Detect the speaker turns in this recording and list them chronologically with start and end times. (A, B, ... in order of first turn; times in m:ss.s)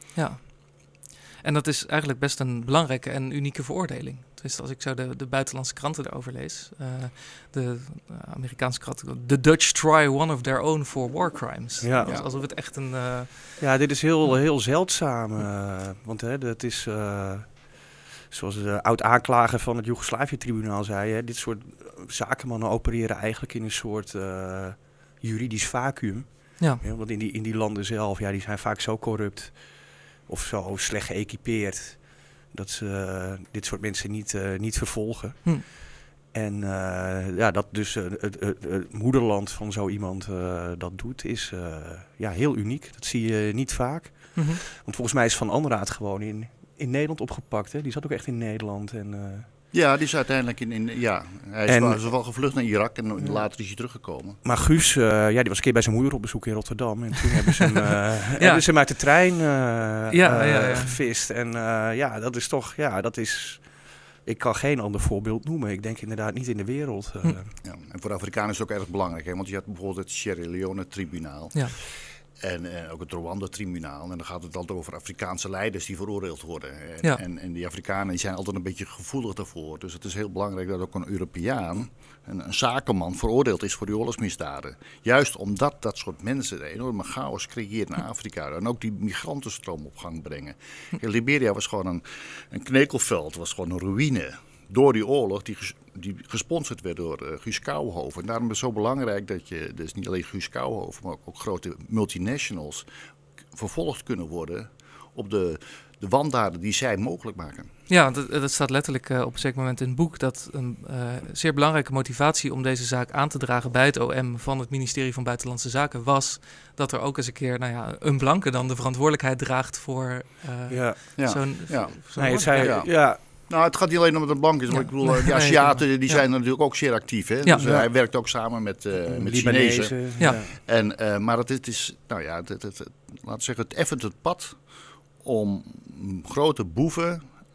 0:00.1-0:13.6 A
0:11.8-0:12.1 B
0:12.0-0:12.3 C
0:13.6-0:49.5 B
0:49.7-0:54.4 C
0:51.7-0:52.1 B
0:53.2-0:53.4 B
0:54.4-1:07.5 B
0:58.4-0:58.6 A
1:00.1-1:01.0 A
1:07.6-1:42.8 C
1:43.5-1:47.7 C
1:47.9-2:02.8 A
2:00.7-2:01.0 B
2:01.2-2:14.6 C
2:02.2-2:03.2 B
2:04.7-2:06.2 A
2:07.6-2:07.9 B
2:09.0-2:10.5 B
2:15.2-2:17.2 C